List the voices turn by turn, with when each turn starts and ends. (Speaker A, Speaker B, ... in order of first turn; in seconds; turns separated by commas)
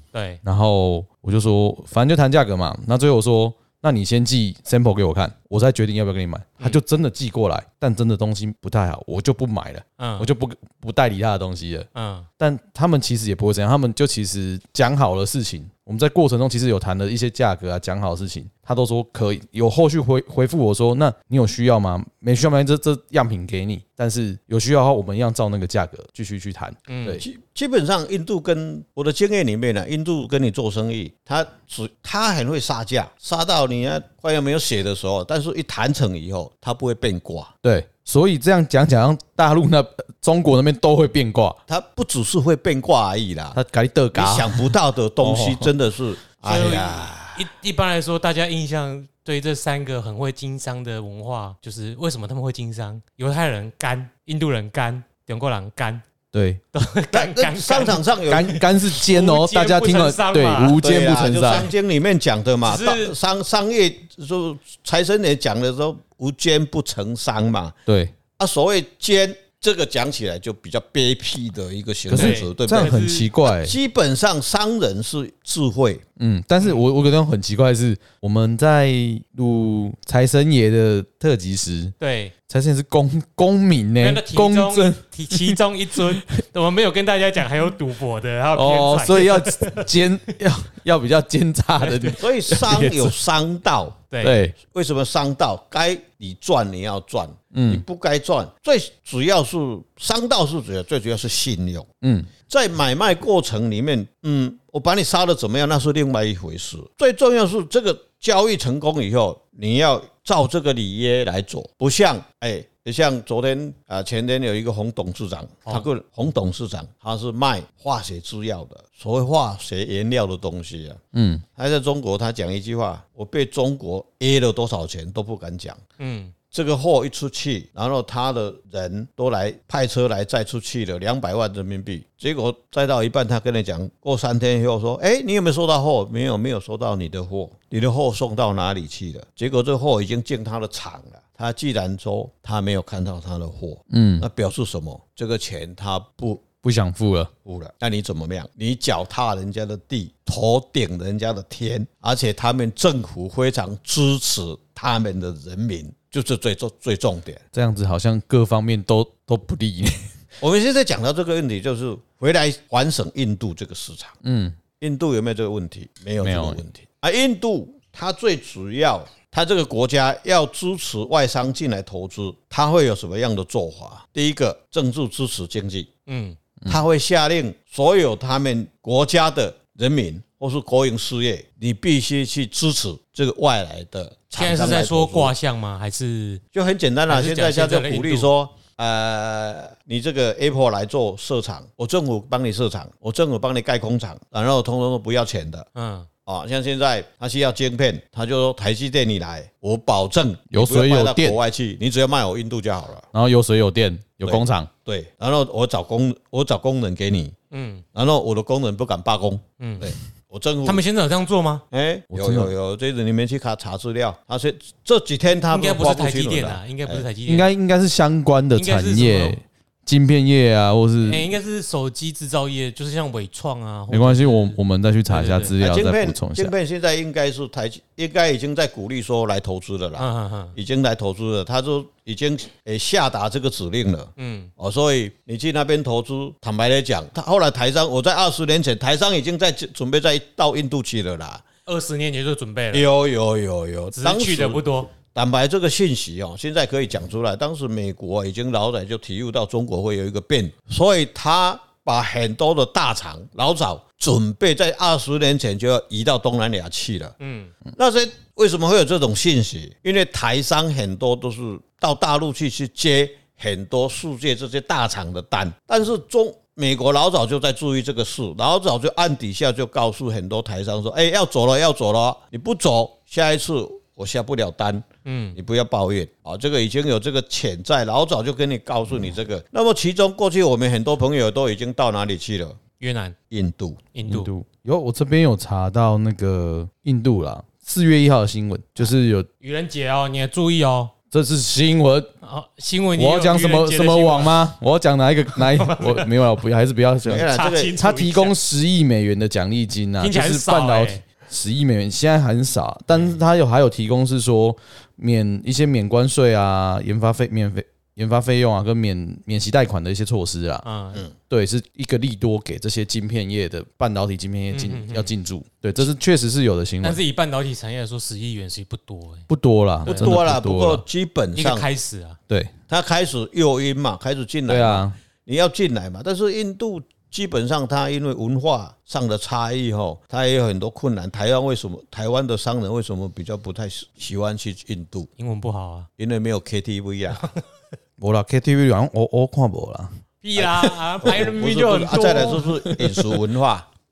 Speaker A: 0.1-0.4, Speaker B: 0.4-11.9, Speaker A: 10.0-10.3, Speaker A: 11.9-12.3, Speaker B: 12.4-27.2, Speaker A: 26.9-27.2, Speaker C: 27.2-37.5, Speaker B: 37.6-41.6, Speaker C: 41.7-43.6, Speaker B: 43.5-45.7, Speaker C: 44.1-47.5, Speaker A: 46.4-56.0, Speaker B: 56.3-56.6, Speaker A: 56.7-60.8, Speaker C: 57.1-58.6, Speaker B: 58.3-61.7, Speaker C: 60.8-67.8, Speaker A: 62.6-63.2, Speaker B: 67.9-68.1, Speaker C: 68.4-76.0, Speaker B: 72.1-73.8, Speaker A: 72.1-73.3, Speaker B: 76.2-81.9, Speaker A: 82.0-82.3, Speaker B: 82.5-86.2, Speaker A: 84.0-89.9, Speaker B: 88.5-93.1, Speaker A: 91.8-92.2, Speaker C: 92.2-94.0, Speaker A: 94.1-94.4, Speaker B: 94.2-94.5, Speaker C: 94.6-101.9, Speaker B: 97.5-97.8, Speaker B: 102.0-102.3, Speaker C: 102.5-121.0, Speaker B: 121.1-121.4, Speaker C: 121.5-125.8, Speaker A: 126.0-126.3, Speaker C: 126.5-146.4, Speaker B: 143.9-144.2, Speaker B: 146.6-147.3, Speaker C: 147.4-157.4, Speaker B: 157.5-160.0, Speaker C: 160.4-164.2, Speaker B: 164.2-164.6, Speaker C: 164.8-175.9, Speaker B: 166.2-166.6, Speaker A: 176.1-176.4, Speaker C: 176.7-185.3, Speaker A: 184.3-186.4, Speaker C: 186.5-195.7, Speaker A: 187.1-188.3, Speaker A: 195.7-196.1, Speaker C: 196.2-203.1, Speaker B: 200.5-201.4, Speaker B: 203.1-204.7, Speaker C: 204.2-207.3, Speaker A: 207.5-207.8, Speaker C: 207.9-210.8, Speaker A: 209.6-209.9, Speaker A: 210.6-211.6, Speaker C: 211.7-217.1, Speaker B: 212.1-212.5, Speaker A: 215.5-217.5, Speaker B: 217.3-221.3, Speaker A: 218.5-219.4, Speaker A: 221.0-225.5, Speaker B: 223.9-226.5, Speaker C: 225.6-241.4, Speaker A: 230.0-230.6, Speaker A: 234.2-234.5, Speaker A: 241.7-242.9, Speaker C: 242.7-257.2, Speaker A: 243.9-244.9, Speaker A: 257.2-257.5, Speaker C: 257.7-282.6, Speaker A: 275.0-275.4, Speaker A: 282.8-283.1, Speaker C: 283.3-283.8, Speaker A: 283.9-284.3, Speaker B: 284.1-289.3, Speaker A: 289.4-290.9, Speaker B: 291.1-292.1, Speaker A: 292.2-294.4, Speaker B: 293.0-310.6, Speaker A: 295.4-296.1, Speaker C: 297.1-297.8, Speaker A: 297.1-298.4, Speaker A: 300.0-301.0, Speaker A: 302.9-303.1, Speaker A: 310.6-311.1, Speaker B: 311.3-317.0, Speaker A: 314.5-315.1, Speaker A: 316.8-319.3, Speaker B: 319.3-320.8, Speaker A: 319.8-320.2, Speaker C: 319.9-321.6, Speaker A: 321.3-322.2, Speaker C: 322.7-335.1, Speaker B: 324.5-324.9, Speaker A: 335.2-335.9, Speaker C: 336.0-337.3, Speaker B: 338.0-339.9, Speaker A: 340.2-342.7, Speaker C: 340.4-343.7, Speaker B: 342.7-343.0